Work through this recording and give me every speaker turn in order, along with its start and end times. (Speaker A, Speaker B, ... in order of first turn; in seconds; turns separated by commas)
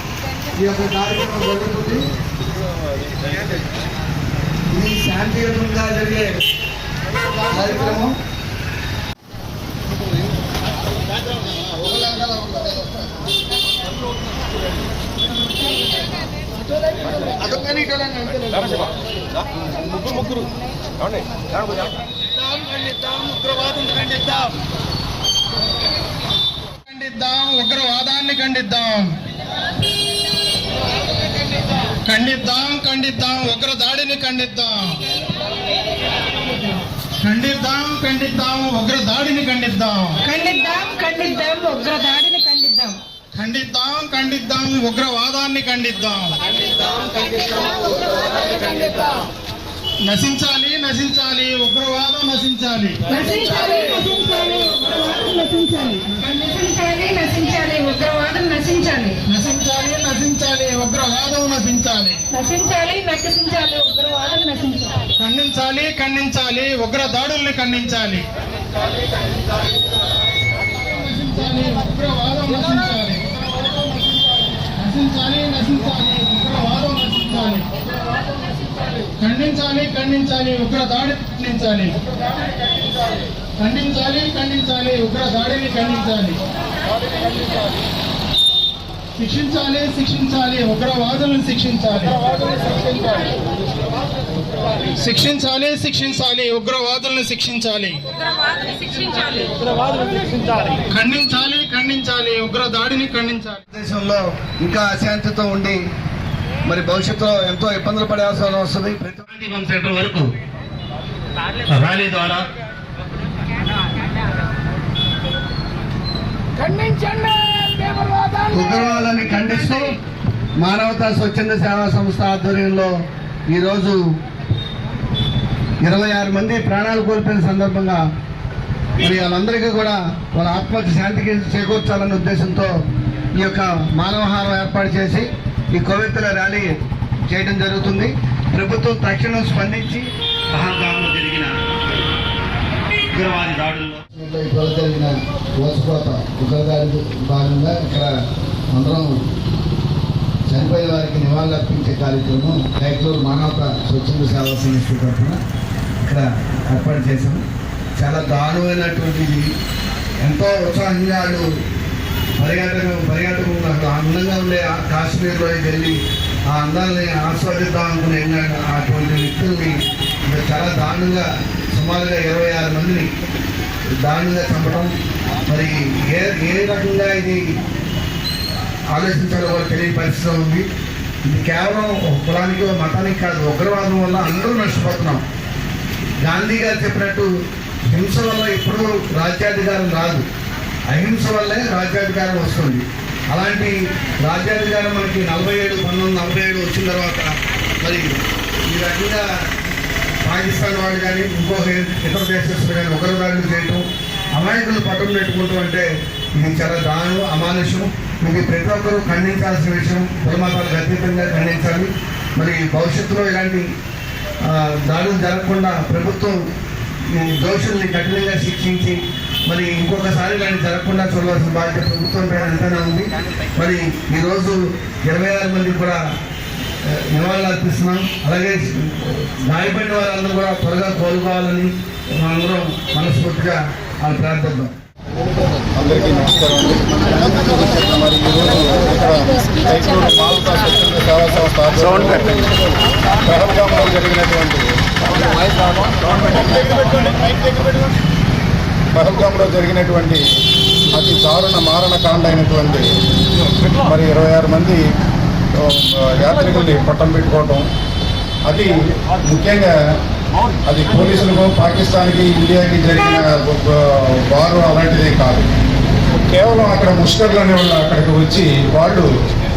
Speaker A: 0.6-2.0, Speaker A: 4.7-6.4, Speaker A: 7.5-8.2, Speaker A: 11.8-12.5, Speaker A: 17.4-18.7, Speaker B: 23.8-24.2, Speaker B: 26.9-29.1, Speaker B: 32.1-34.9, Speaker B: 37.2-40.2, Speaker C: 40.2-43.0, Speaker B: 43.4-46.3, Speaker B: 50.0-52.9, Speaker C: 53.1-59.2, Speaker B: 59.3-62.2, Speaker C: 62.3-65.0, Speaker B: 65.2-68.2, Speaker B: 71.0-73.2, Speaker B: 74.8-77.7, Speaker B: 79.2-81.9, Speaker B: 83.6-86.4, Speaker B: 89.2-92.2, Speaker B: 95.0-98.0, Speaker C: 98.3-99.3, Speaker B: 99.2-99.4, Speaker B: 100.9-103.6, Speaker A: 103.7-105.8, Speaker A: 106.7-109.2, Speaker D: 109.3-110.3, Speaker D: 111.7-112.5, Speaker A: 118.5-120.0, Speaker A: 120.6-122.9, Speaker A: 123.5-124.0, Speaker A: 125.8-128.0, Speaker A: 129.0-132.7, Speaker A: 133.3-136.7, Speaker A: 137.3-140.1, Speaker D: 140.5-141.5, Speaker D: 143.1-144.0, Speaker A: 144.1-148.1, Speaker A: 148.7-149.2, Speaker A: 150.5-155.4, Speaker A: 156.0-157.4, Speaker A: 158.0-159.5, Speaker A: 160.2-161.4, Speaker A: 162.4-166.0, Speaker A: 166.5-169.7, Speaker A: 170.3-173.1, Speaker A: 174.0-174.9, Speaker A: 175.5-177.4, Speaker A: 178.9-180.7, Speaker A: 181.3-185.2, Speaker A: 186.2-187.3, Speaker A: 187.9-190.2, Speaker A: 190.9-197.3, Speaker A: 197.8-198.2, Speaker A: 198.7-199.2, Speaker A: 200.2-213.6, Speaker A: 214.5-216.4, Speaker A: 217.1-223.0, Speaker A: 223.6-226.0, Speaker A: 226.9-234.8, Speaker E: 235.8-242.4, Speaker E: 243.2-244.7, Speaker E: 246.2-247.9, Speaker E: 248.9-250.2, Speaker E: 250.9-252.8, Speaker E: 253.8-254.8, Speaker E: 255.6-257.6, Speaker E: 258.5-259.7, Speaker E: 260.7-265.5, Speaker E: 266.1-269.1